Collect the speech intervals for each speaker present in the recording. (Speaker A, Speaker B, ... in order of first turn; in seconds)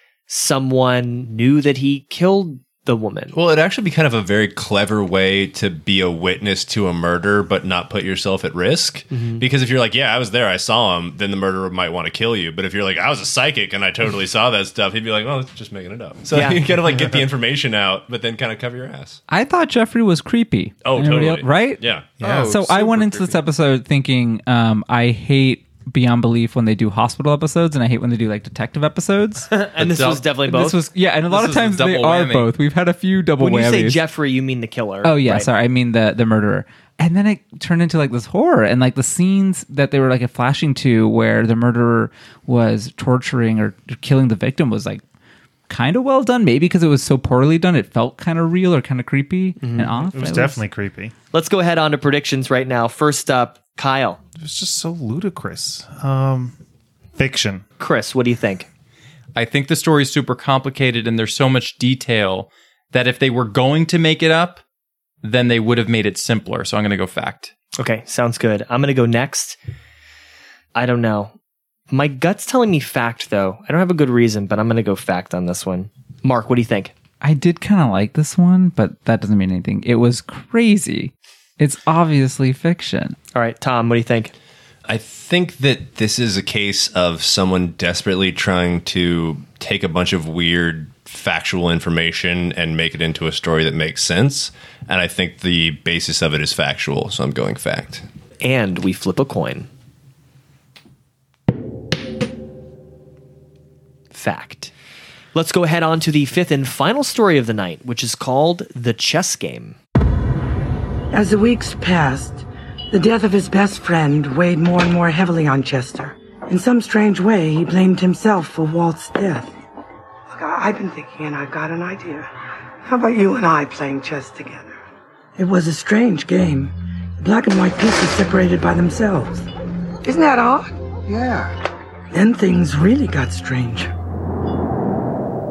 Speaker A: 0.3-3.3, 9.1-9.4, 16.3-16.6, 29.5-30.8, 33.4-35.5, 49.6-50.0, 51.3-54.2, 57.8-58.7, 67.8-69.6, 70.7-71.3, 71.9-76.9, 83.3-84.3, 98.4-99.7, 104.1-104.7, 105.3-109.8
Speaker B: 3.3-19.2, 20.8-22.1, 84.9-98.0
Speaker C: 19.3-29.5, 30.5-34.0, 35.0-45.0, 45.7-50.6, 77.2-83.2
Speaker D: 22.2-22.6, 50.1-51.1, 54.4-56.6, 57.1-57.6
Speaker E: 22.2-23.4, 29.8-30.2, 31.3-32.5, 59.3-64.6, 65.2-67.5
Speaker F: 111.1-119.5, 120.3-122.3, 122.8-124.8, 125.4-129.5, 130.0-131.5, 132.1-133.9